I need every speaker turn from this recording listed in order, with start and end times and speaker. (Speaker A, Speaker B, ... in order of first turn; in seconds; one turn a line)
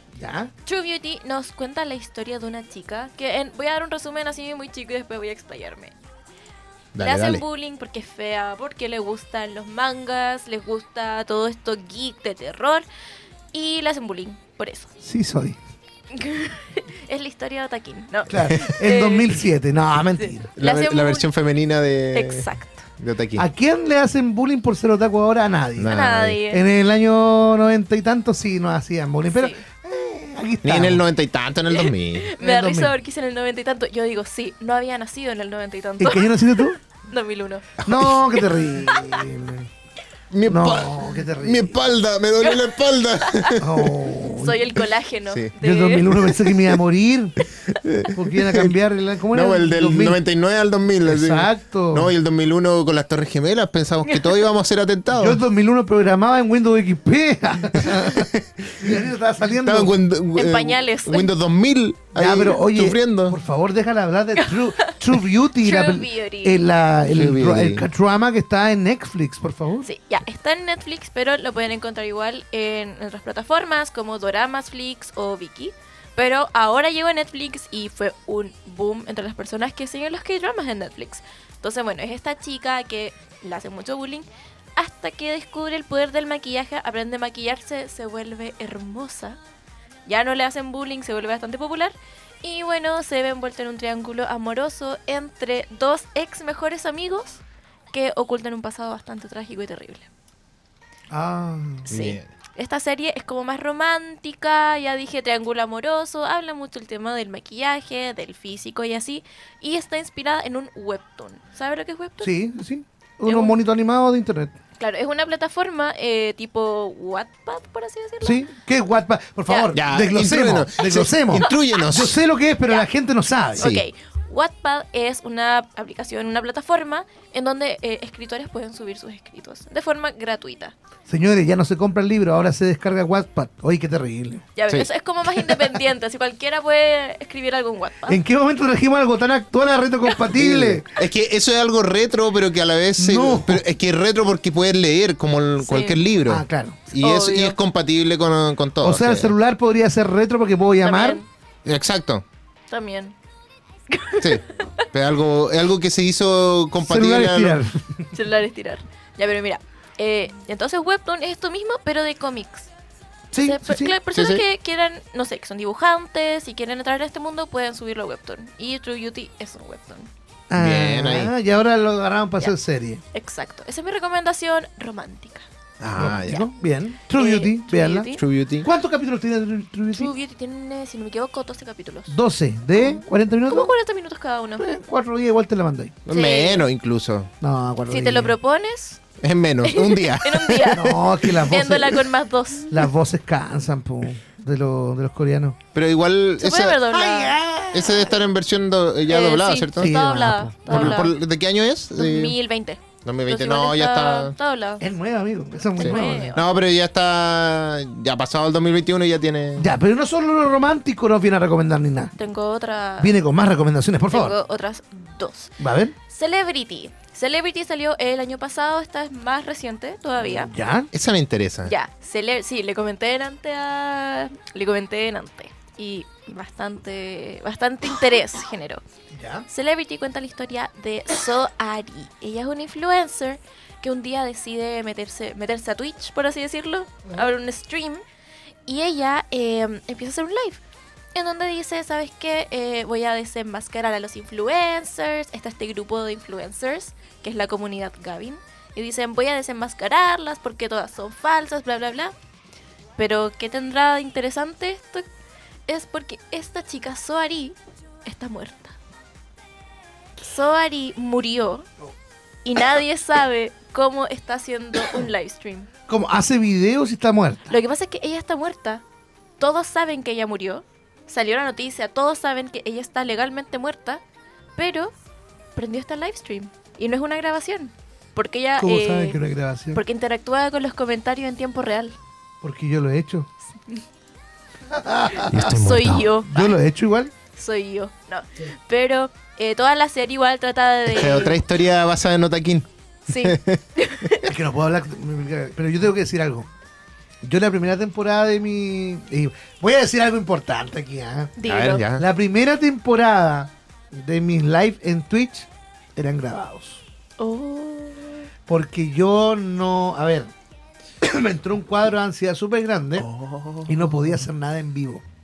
Speaker A: 0.1-0.5
Speaker B: 0.7-5.9
Speaker C: 6.9-7.4
Speaker B: 7.0-12.8
Speaker B: 13.5-14.9
Speaker A: 15.0-15.6
Speaker B: 16.1-19.4
Speaker A: 18.3-20.5
Speaker B: 20.2-21.3
Speaker C: 20.6-22.5
Speaker B: 22.1-22.8
Speaker C: 23.0-23.5
Speaker A: 23.4-25.9
Speaker C: 25.8-26.4
Speaker B: 25.9-26.6
Speaker A: 26.5-31.0
Speaker B: 29.3-29.6
Speaker C: 30.6-32.3
Speaker B: 31.7-37.7
Speaker A: 32.4-32.9
Speaker A: 36.0-36.8
Speaker C: 37.8-38.1
Speaker A: 37.8-39.7
Speaker B: 38.9-39.2
Speaker C: 40.3-44.0
Speaker A: 40.5-41.8
Speaker B: 42.4-43.6
Speaker A: 43.6-44.6
Speaker B: 44.4-46.2
Speaker A: 45.6-47.4
Speaker C: 46.3-46.7
Speaker C: 47.7-48.7
Speaker A: 48.1-50.2
Speaker C: 49.3-55.4
Speaker A: 51.0-52.1
Speaker B: 54.1-54.4
Speaker A: 55.1-59.9
Speaker C: 57.8-58.9
Speaker C: 59.6-63.4
Speaker B: 60.4-61.3
Speaker A: 62.1-69.9
Speaker B: 64.4-65.0
Speaker B: 65.5-66.6
Speaker C: 67.1-67.8
Speaker B: 69.8-89.4
Speaker B: 90.0-100.1
Speaker A: 101.1-101.9
Speaker B: 101.8-112.3
Speaker C: 101.9-102.2
Speaker A: 112.2-114.5
Speaker B: 113.2-113.5
Speaker B: 114.8-118.4
Speaker A: 118.2-123.8
Speaker B: 119.5-119.7
Speaker C: 119.7-122.2
Speaker B: 123.6-130.7
Speaker A: 131.1-134.5
Speaker B: 134.6-138.2
Speaker A: 138.1-140.8
Speaker C: 140.3-149.3
Speaker A: 143.0-143.6
Speaker B: 145.6-146.0
Speaker A: 146.2-146.8
Speaker B: 146.9-147.6
Speaker A: 148.8-151.2
Speaker B: 150.8-151.3
Speaker C: 151.6-152.2
Speaker B: 152.7-153.1
Speaker B: 153.9-154.4
Speaker C: 154.2-157.6
Speaker A: 156.8-158.1
Speaker B: 158.1-162.7
Speaker A: 163.3-163.9
Speaker B: 163.4-170.1
Speaker C: 164.1-164.4
Speaker A: 170.5-173.0
Speaker C: 170.6-171.3
Speaker B: 173.1-175.4
Speaker C: 175.8-176.4
Speaker A: 175.9-178.1
Speaker B: 177.1-178.2
Speaker C: 178.1-178.7
Speaker A: 178.6-180.1
Speaker B: 179.9-182.2
Speaker A: 182.1-183.7
Speaker B: 182.7-184.6
Speaker A: 184.6-186.0
Speaker C: 186.1-187.3
Speaker B: 186.1-186.6
Speaker A: 187.4-188.3
Speaker B: 187.9-189.0
Speaker C: 189.2-191.3
Speaker B: 189.6-190.9
Speaker A: 190.7-192.1
Speaker B: 191.4-192.9
Speaker A: 192.7-195.6
Speaker C: 195.7-197.1
Speaker B: 196.4-197.4
Speaker A: 197.0-198.2
Speaker C: 197.7-200.0
Speaker B: 199.1-201.1
Speaker A: 199.8-201.0
Speaker C: 200.7-202.3
Speaker B: 201.9-204.8
Speaker C: 203.0-204.3
Speaker A: 204.8-206.3
Speaker B: 205.8-206.4
Speaker C: 205.8-209.7
Speaker A: 209.6-212.1
Speaker B: 212.2-213.2
Speaker A: 213.0-214.3
Speaker B: 214.1-215.6
Speaker A: 215.6-215.9
Speaker B: 216.1-220.5
Speaker A: 220.2-220.9
Speaker C: 220.9-221.7
Speaker B: 221.6-228.8
Speaker A: 229.1-229.5
Speaker B: 229.5-238.0
Speaker B: 238.7-240.6
Speaker B: 241.1-252.1
Speaker B: 253.0-255.1
Speaker B: 255.7-258.8
Speaker B: 260.2-261.7
Speaker B: 262.4-265.7
Speaker A: 265.9-267.6
Speaker B: 267.5-268.8
Speaker B: 269.4-274.0
Speaker B: 274.6-274.9
Speaker B: 275.6-279.2
Speaker A: 278.6-279.8
Speaker B: 279.7-281.9
Speaker A: 282.4-283.3
Speaker A: 284.7-285.6
Speaker C: 285.3-286.1
Speaker B: 285.4-286.6
Speaker A: 286.2-287.1
Speaker B: 287.3-291.4
Speaker C: 290.9-292.7
Speaker B: 293.1-294.3
Speaker C: 293.2-293.6
Speaker A: 294.2-296.5
Speaker A: 297.2-301.4
Speaker B: 301.4-301.9
Speaker C: 301.4-302.0
Speaker A: 301.9-306.8
Speaker B: 307.2-308.3
Speaker A: 308.5-310.3
Speaker A: 311.0-313.1
Speaker C: 313.0-314.1
Speaker A: 313.7-315.0